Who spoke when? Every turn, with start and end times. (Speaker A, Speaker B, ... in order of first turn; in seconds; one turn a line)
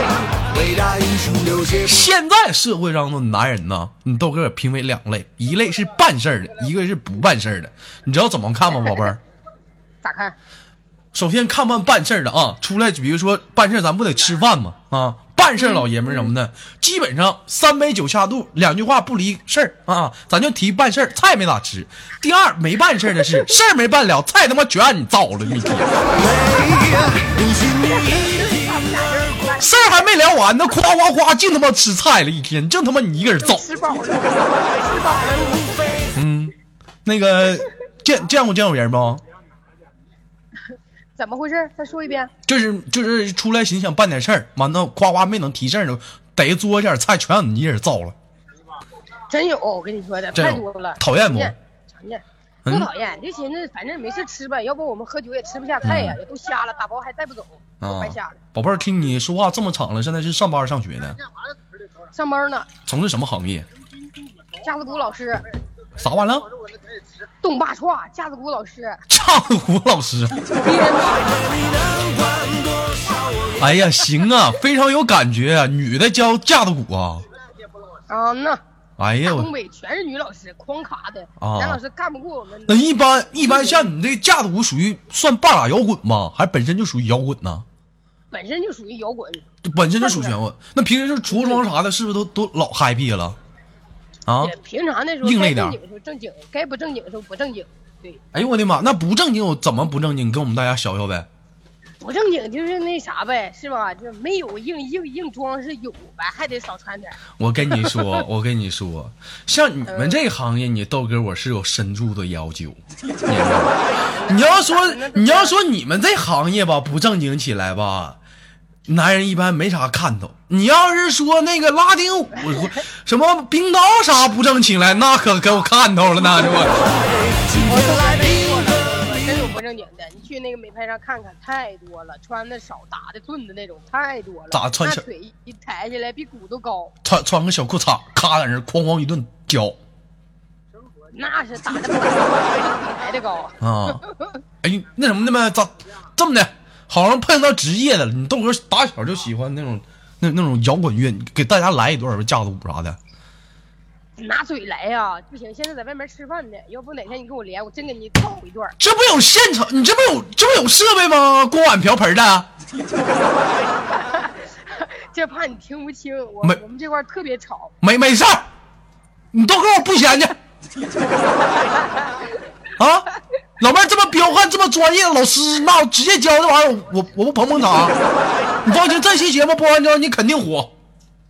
Speaker A: 0.4-1.9
Speaker B: 1.9-9.2
Speaker C: 10.0-10.3
Speaker B: 11.1-26.2
Speaker C: 15.6-16.3
Speaker A: 26.1-29.5
Speaker C: 28.0-29.7
Speaker B: 29.6-33.6
Speaker C: 33.4-36.1
Speaker A: 35.1-36.0
Speaker B: 36.1-36.5
Speaker B: 37.0-39.2
Speaker C: 41.1-42.3
Speaker B: 42.5-48.1
Speaker C: 49.3-58.4
Speaker B: 50.3-51.5
Speaker B: 52.6-52.9
Speaker B: 55.8-56.2
Speaker B: 57.8-61.2
Speaker C: 62.1-62.7
Speaker B: 62.9-63.6
Speaker C: 64.6-65.4
Speaker B: 66.0-66.5
Speaker C: 67.4-69.0
Speaker B: 69.1-70.4
Speaker C: 70.6-71.4
Speaker A: 71.2-73.9
Speaker B: 73.6-77.3
Speaker C: 78.1-78.6
Speaker B: 79.0-79.5
Speaker C: 79.2-83.9
Speaker B: 81.4-81.8
Speaker B: 82.7-87.7
Speaker C: 88.3-89.5
Speaker B: 89.6-93.4
Speaker C: 90.0-90.4
Speaker C: 91.3-91.6
Speaker B: 94.3-94.5
Speaker C: 94.4-98.2
Speaker B: 95.2-95.8
Speaker B: 98.3-101.3
Speaker C: 102.0-107.2
Speaker B: 107.4-113.7
Speaker C: 107.7-108.2
Speaker C: 109.8-110.2
Speaker C: 114.1-115.6
Speaker B: 114.3-118.2
Speaker B: 118.9-127.1
Speaker A: 127.3-129.3
Speaker C: 127.6-136.9
Speaker B: 134.5-135.0
Speaker B: 137.0-139.8
Speaker C: 141.1-144.4
Speaker B: 143.6-144.0
Speaker B: 144.6-153.0
Speaker C: 154.2-158.8
Speaker B: 158.8-162.5
Speaker C: 163.9-167.7
Speaker B: 167.8-168.5
Speaker B: 169.3-170.3
Speaker C: 171.4-172.3
Speaker B: 172.8-173.1
Speaker B: 173.6-178.0
Speaker B: 178.6-180.7